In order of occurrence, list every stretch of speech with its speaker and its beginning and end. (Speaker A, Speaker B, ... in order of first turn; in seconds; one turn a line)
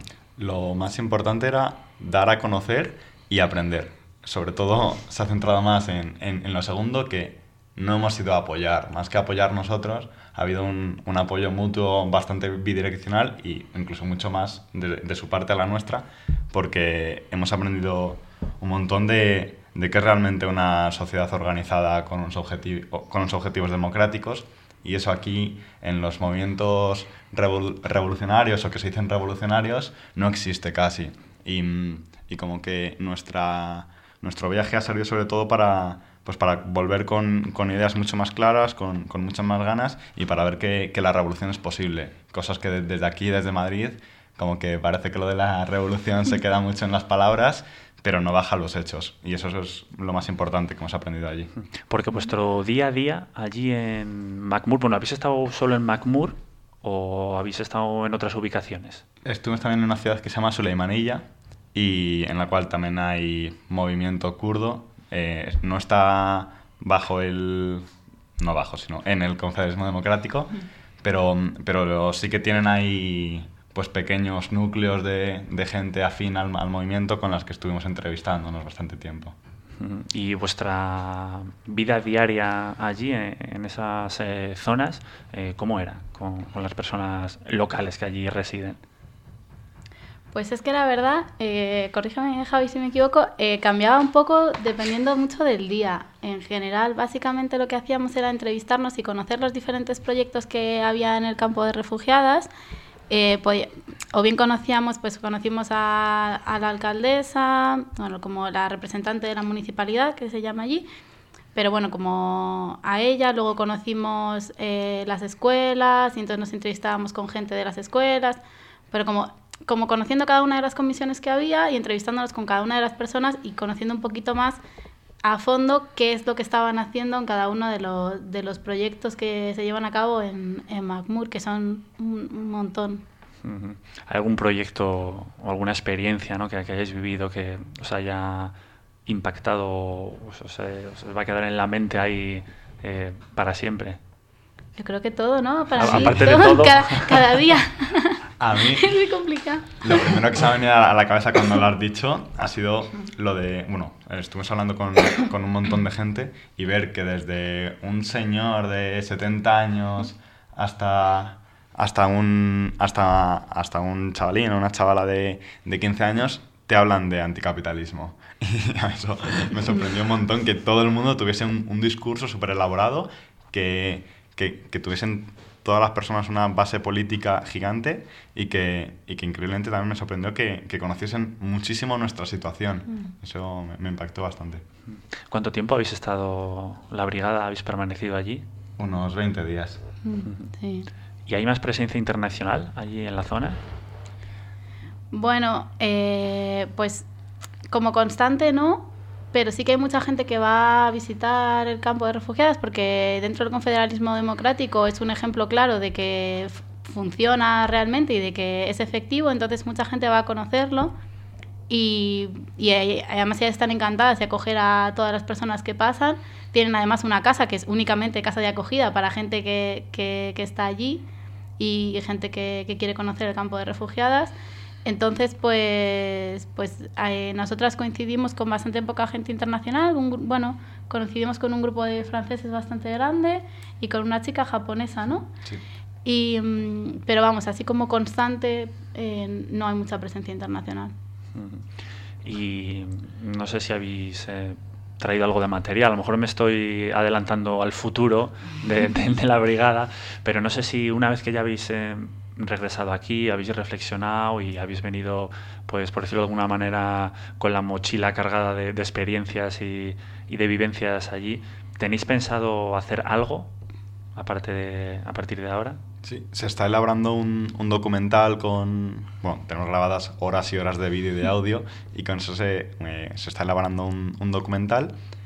Speaker A: 0.4-51.5
Speaker B: 51.9-59.0
Speaker A: 59.2-79.3
Speaker B: 79.8-88.8
Speaker C: 90.3-102.5
Speaker C: 103.1-110.9
Speaker C: 111.5-118.4
Speaker C: 118.9-124.6
Speaker C: 125.2-133.0
Speaker B: 133.4-138.5
Speaker B: 139.1-144.0
Speaker C: 144.8-148.2
Speaker B: 145.8-147.3
Speaker A: 145.9-146.1
Speaker A: 148.4-148.9
Speaker C: 148.7-150.2
Speaker A: 149.8-184.6
Speaker B: 185.2-188.4
Speaker A: 188.8-189.8
Speaker C: 190.0-190.9
Speaker B: 191.2-193.6
Speaker C: 195.1-197.1
Speaker C: 197.7-210.9
Speaker C: 211.7-221.0
Speaker C: 221.6-224.3
Speaker C: 224.8-235.3
Speaker C: 236.0-240.9
Speaker B: 241.3-241.7
Speaker B: 242.2-263.5
Speaker B: 264.1-265.8
Speaker A: 266.0-274.9